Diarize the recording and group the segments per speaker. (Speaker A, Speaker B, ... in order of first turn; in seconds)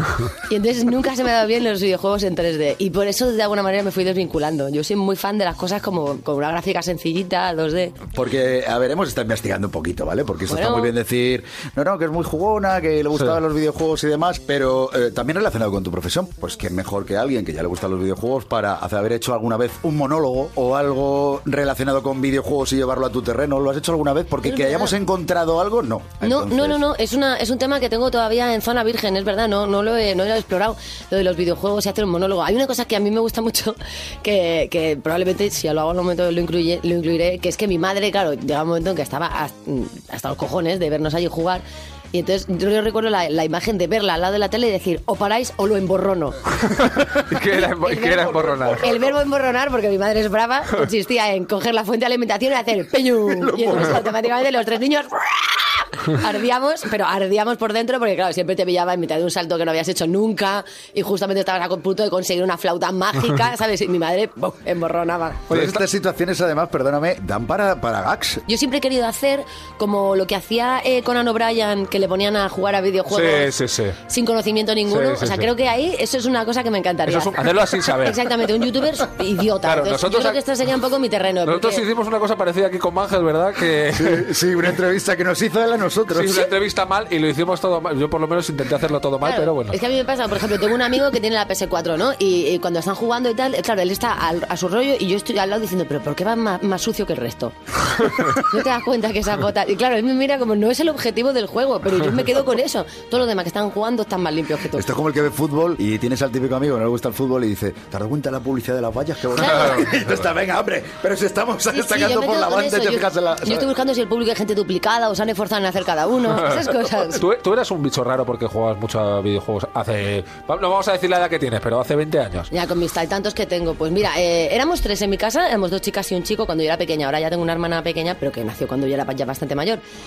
Speaker A: 0.3-8.0, 10.5-10.9, 24.4-24.9, 26.2-46.4, 47.2-65.5, 68.5-73.5, 74.1-81.8, 89.2-104.9, 109.5-109.8, 111.7-117.2, 122.5-129.8
Speaker B: 8.1-26.8, 53.3-54.0, 65.5-68.4, 83.9-86.5, 104.7-113.7
Speaker C: 46.6-48.9, 65.5-65.8, 73.1-74.0, 74.9-75.5, 77.0-78.4, 79.6-80.4, 81.4-84.3, 86.1-89.8, 109.5-109.8, 116.4-122.5